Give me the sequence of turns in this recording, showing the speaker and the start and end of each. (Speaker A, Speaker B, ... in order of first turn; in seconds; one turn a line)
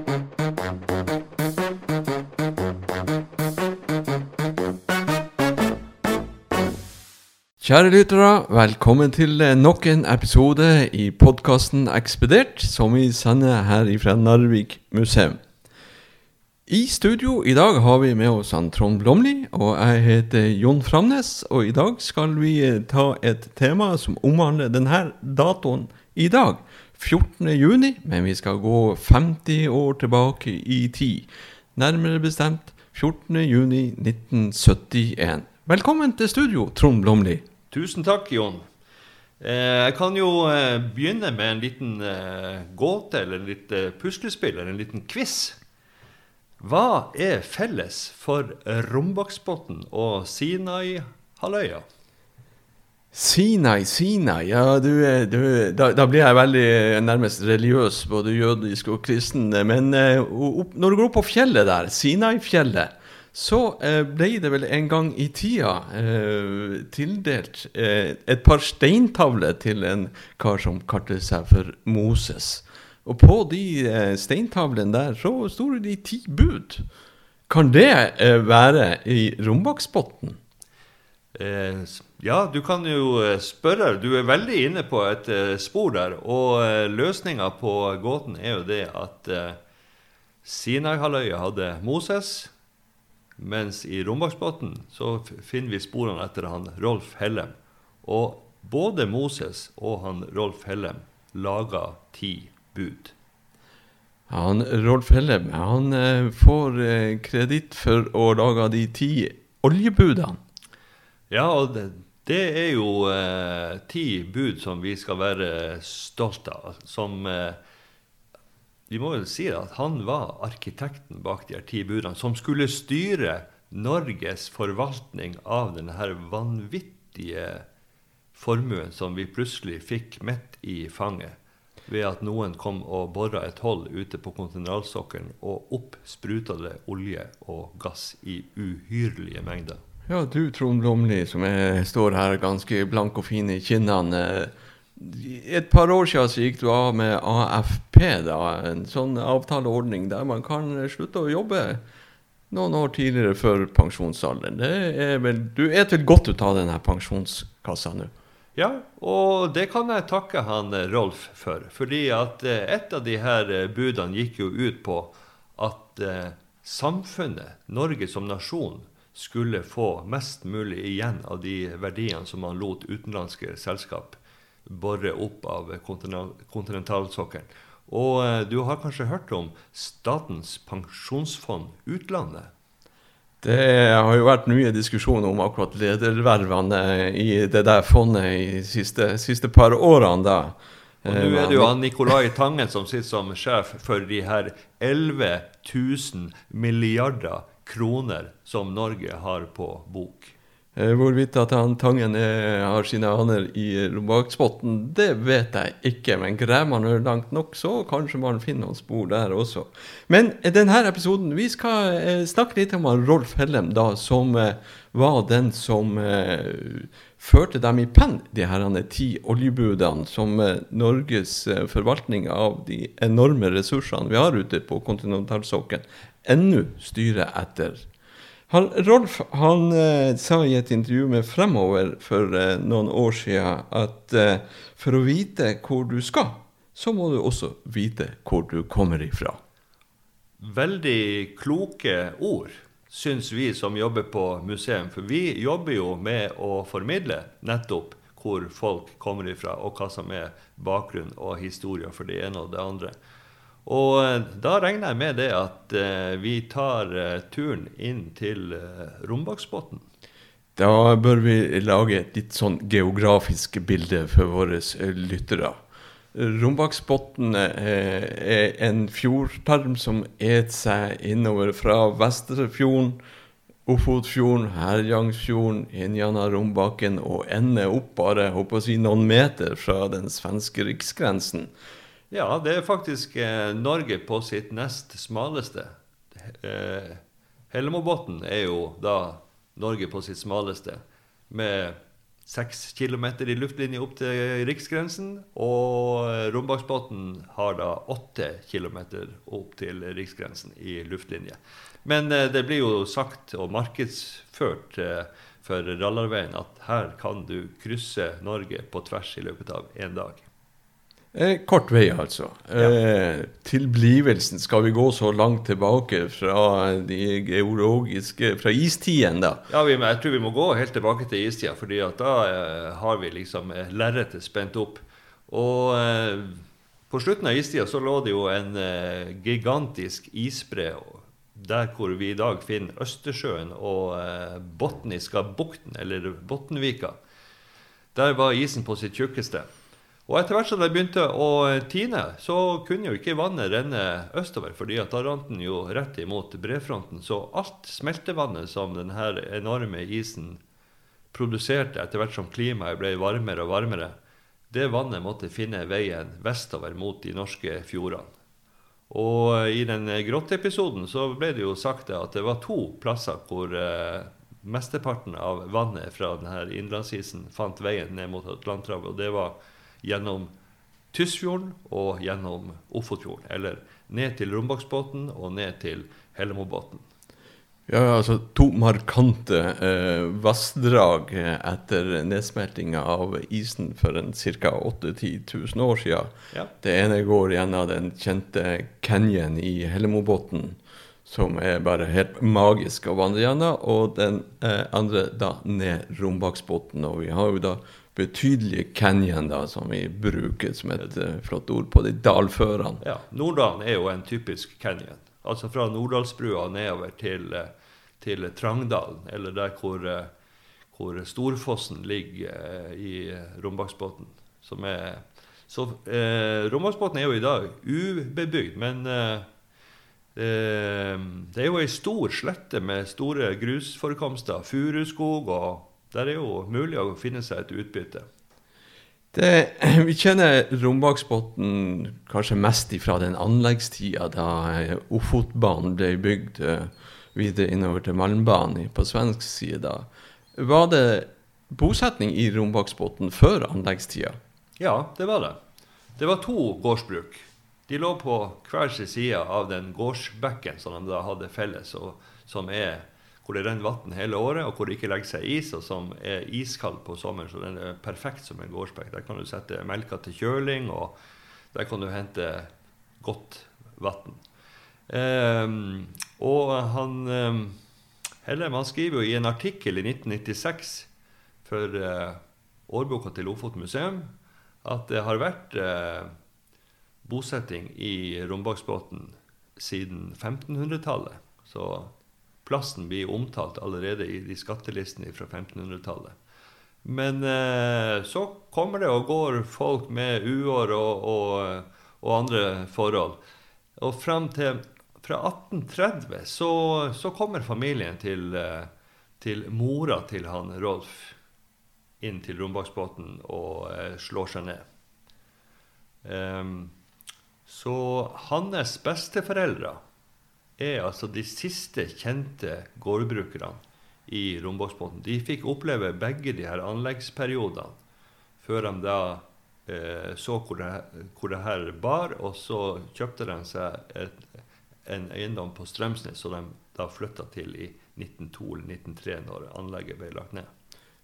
Speaker A: 7.6-15.4
Speaker A: 16.7-37.4
Speaker B: 37.7-38.6
Speaker B: 39.4-45.6
Speaker B: 46.6-51.8
Speaker A: 53.1-76.9
Speaker A: 77.5-80.4
Speaker B: 81.3-89.6
Speaker B: 90.4-92.5
Speaker B: 93.4-103.1
Speaker A: 104.3-110.4
Speaker B: 111.3-117.6
Speaker B: 118.9-127.6
Speaker B: 128.3-139.8
Speaker A: 140.1-151.8
Speaker A: 152.5-158.1
Speaker B: 158.6-182.5
Speaker A: 183.4-192.1
Speaker B: 191.0-200.3
Speaker A: 200.7-227.9
Speaker A: 228.5-239.4
Speaker B: 240.4-252.9
Speaker B: 253.7-259.8
Speaker A: 260.6-265.6
Speaker A: 266.1-273.0
Speaker A: 273.6-281.5
Speaker B: 282.1-310.2
Speaker A: 311.1-319.4
Speaker B: 319.5-336.9
Speaker B: 337.9-339.5
Speaker B: 340.1-350.4
Speaker B: 351.1-353.9
Speaker B: 354.5-358.1
Speaker B: 358.9-370.3
Speaker B: 370.9-376.8
Speaker A: 377.7-402.8
Speaker B: 402.8-407.5
Speaker B: 408.0-410.1
Speaker B: 410.7-419.2
Speaker B: 420.1-428.0
Speaker A: 429.1-444.2
Speaker B: 444.6-445.4
Speaker B: 446.0-460.9
Speaker B: 461.5-462.5
Speaker B: 463.0-464.2
Speaker B: 464.9-467.6
Speaker B: 468.2-470.9
Speaker B: 471.4-474.1
Speaker B: 474.6-476.1
Speaker B: 477.0-481.9
Speaker B: 482.4-486.1
Speaker B: 486.8-493.2
Speaker B: 493.8-498.7
Speaker B: 499.2-501.1
Speaker B: 502.0-504.6
Speaker B: 506.0-506.7
Speaker B: 507.4-509.8
Speaker B: 510.6-517.8
Speaker B: 518.4-524.2
Speaker B: 524.9-530.5